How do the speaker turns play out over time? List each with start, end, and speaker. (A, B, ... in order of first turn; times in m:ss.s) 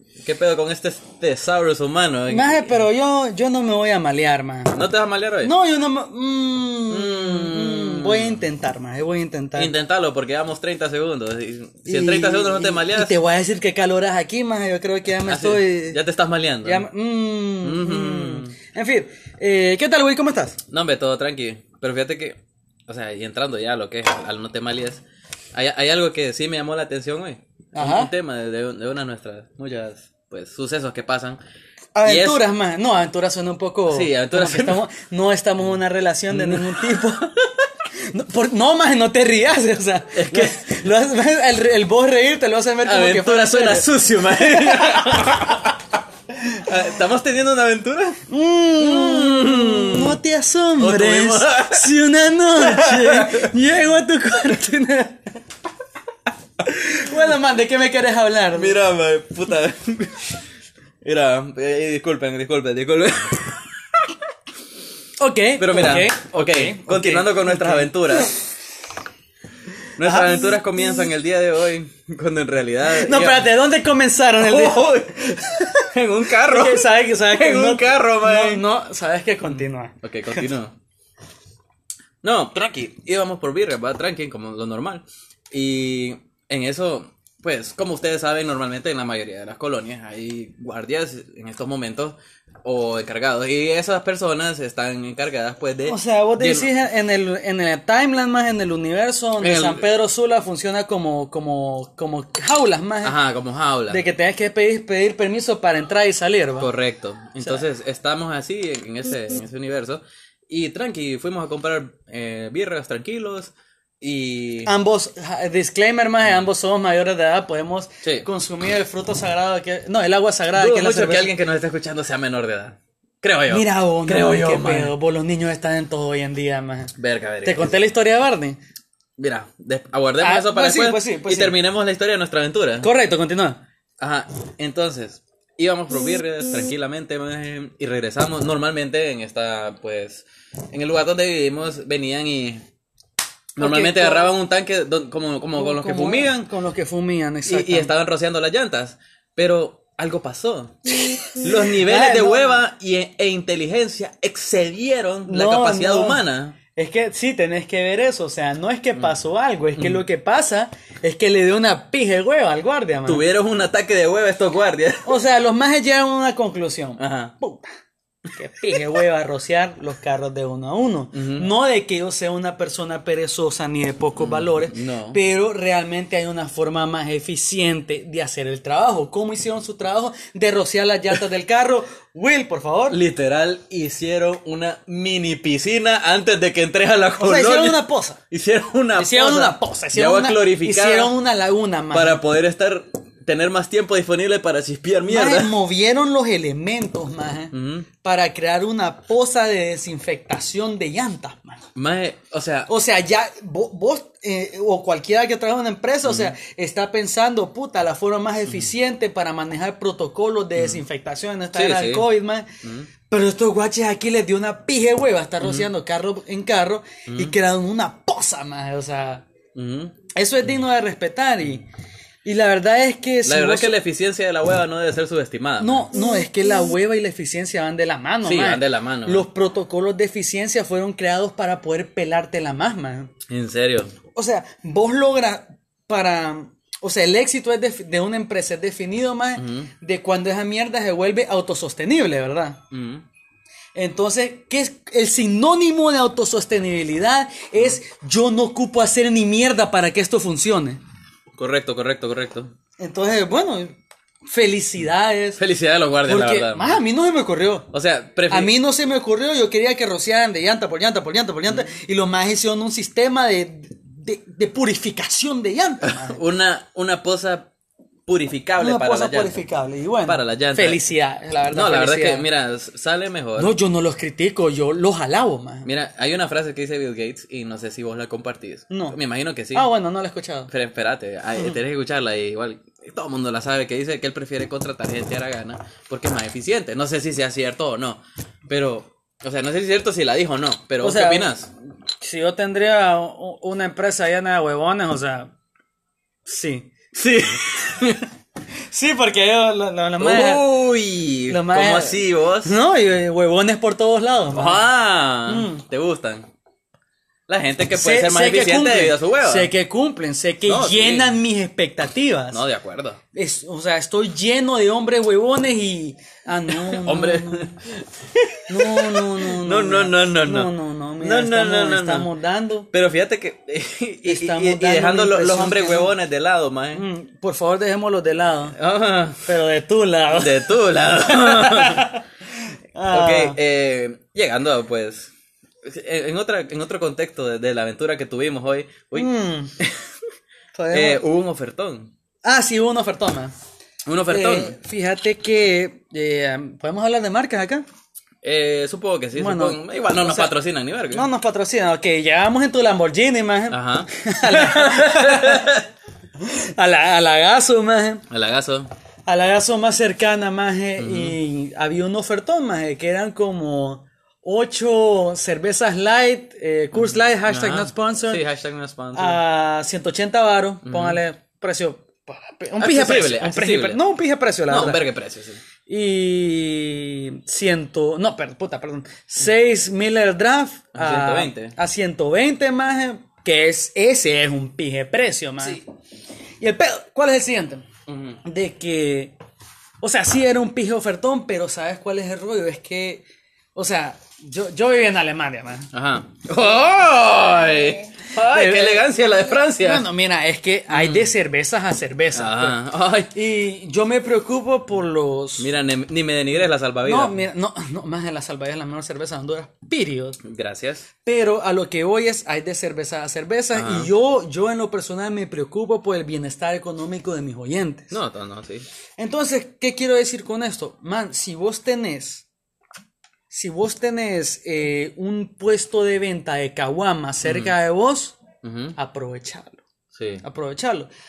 0:00.2-0:02.8 A
0:02.3-0:04.8 B
0:04.7-0:05.5 A
0:05.4-0:09.7 B
0:06.9-0:08.4 A
0:09.6-0:13.1 A
0:11.8-0:16.0 B
0:15.2-0:16.9 A
0:16.6-0:20.6 B
0:17.6-0:18.5 A
0:20.7-0:22.4 A
0:22.9-0:25.0 A
0:25.5-0:31.4 A
0:27.7-0:28.1 B
0:31.9-0:37.4 B
0:32.0-0:32.4 A
0:33.9-0:34.8 A
0:36.3-0:37.2 A
0:38.0-0:45.5 B
0:40.1-0:40.8 A
0:42.8-0:45.7 A
0:46.6-0:48.2 A
0:48.3-0:55.3 B
0:48.8-0:50.2 A
0:50.8-0:51.9 A
0:52.5-0:53.5 A
0:56.6-0:58.8 B
0:58.5-1:00.4 A
1:01.0-1:04.0 A
1:05.2-1:08.4 B
1:05.6-1:08.3 A
1:10.0-1:13.6 A
1:10.0-1:10.4 B
1:12.8-1:20.4 B
1:14.4-1:18.6 A
1:20.0-1:20.7 A
1:22.2-1:36.7 A
1:35.9-1:43.2 B
1:39.4-1:39.8 A
1:43.0-1:44.0 A
1:43.9-1:46.7 B
1:46.6-1:54.7 A
1:54.6-2:01.3 B
2:00.5-2:04.9 A
2:03.5-2:08.6 B
2:07.0-2:07.8 A
2:09.2-2:12.9 A
2:10.2-2:11.6 B
2:12.8-2:13.6 B
2:14.0-2:22.6 A
2:23.6-2:24.3 B
2:23.6-2:26.5 A
2:25.5-2:27.9 B
2:27.4-2:30.7 A
2:31.1-2:32.6 B
2:31.4-2:36.6 A
2:35.2-2:43.2 B
2:39.8-2:40.0 A
2:43.0-2:45.1 A
2:45.0-2:47.7 B
2:47.0-2:47.3 A
2:48.3-3:03.0 B
2:51.1-2:51.5 A
2:54.2-2:55.2 A
3:02.9-3:11.2 A
3:07.2-3:08.2 B
3:09.0-3:12.2 B
3:11.9-3:15.6 A
3:15.0-3:21.6 B
3:17.5-3:17.9 A
3:21.7-3:22.7 A
3:22.7-3:32.4 B
3:26.0-3:26.4 A
3:30.6-3:30.8 A
3:31.5-3:32.1 A
3:32.6-3:32.9 A
3:33.0-3:39.2 B
3:35.4-3:35.7 A
3:37.1-3:37.3 A
3:39.5-3:40.0 A
3:40.1-3:41.7 B
3:42.2-3:43.8 B
3:43.2-3:45.9 A
3:45.6-3:53.1 B
3:48.2-3:49.2 A
3:53.3-3:53.9 A
3:54.1-4:02.6 B
3:59.4-3:59.7 A
4:02.7-4:03.0 A
4:03.7-4:10.8 B
4:11.3-4:12.5 A
4:12.8-4:15.4 B
4:15.4-4:16.8 A
4:16.0-4:17.7 B
4:17.7-4:18.5 A
4:18.3-4:26.2 B
4:25.8-4:27.5 A
4:28.1-4:29.4 A
4:28.6-4:32.2 B
4:30.0-4:30.8 A
4:31.5-4:33.5 A
4:33.4-4:35.7 B
4:35.6-4:39.7 A
4:38.7-4:39.0 B
4:39.5-4:40.5 B
4:40.5-4:51.5 A
4:50.8-4:51.4 B
4:52.0-4:55.3 B
4:56.2-4:56.7 B
4:56.9-4:58.0 A
4:58.7-5:00.6 B
5:00.0-5:02.6 A
5:01.3-5:04.6 B
5:04.3-5:06.2 A
5:05.2-5:05.6 B
5:07.3-5:09.5 A
5:07.7-5:12.4 B
5:10.4-5:11.2 A
5:12.3-5:13.0 A
5:13.1-5:17.5 B
5:16.5-5:22.1 A
5:18.5-5:22.7 B
5:22.7-5:26.9 A
5:24.0-5:26.0 B
5:26.7-5:28.6 B
5:28.6-5:29.2 A
5:29.2-5:32.0 B
5:30.1-5:31.9 A
5:32.7-5:33.4 B
5:32.9-5:35.1 A
5:35.6-5:39.8 A
5:38.9-5:39.5 B
5:40.5-5:41.0 B
5:40.7-5:41.9 A
5:42.2-5:43.3 B
5:43.8-5:44.6 A
5:44.1-5:47.6 B
5:48.2-5:51.1 A
5:49.1-5:50.3 B
5:50.9-5:55.5 B
5:53.5-5:55.6 A
5:56.2-5:58.0 B
5:58.1-5:58.7 A
5:59.0-6:08.2 B
6:00.8-6:01.2 A
6:06.7-6:09.2 A
6:08.9-6:14.8 B
6:10.6-6:11.0 A
6:12.6-6:13.8 A
6:14.5-6:15.4 A
6:15.6-6:25.6 B
6:20.7-6:21.5 A
6:26.4-6:27.6 B
6:27.9-6:28.2 A
6:28.2-6:29.1 B
6:29.8-6:35.7 B
6:35.7-6:39.9 A
6:38.0-6:38.9 B
6:39.6-6:42.6 B
6:40.7-6:41.1 A
6:42.1-6:43.2 A
6:43.1-6:45.5 B
6:45.4-6:47.2 A
6:46.8-6:50.2 B
6:50.2-6:50.9 A
6:51.0-6:58.0 B
6:53.5-6:53.9 A
6:57.9-6:58.6 A
6:59.0-7:02.2 B
7:03.3-7:08.2 B
7:07.2-7:07.6 A
7:08.4-7:08.8 A
7:08.8-7:09.6 B
7:09.9-7:10.2 A
7:10.2-7:10.9 B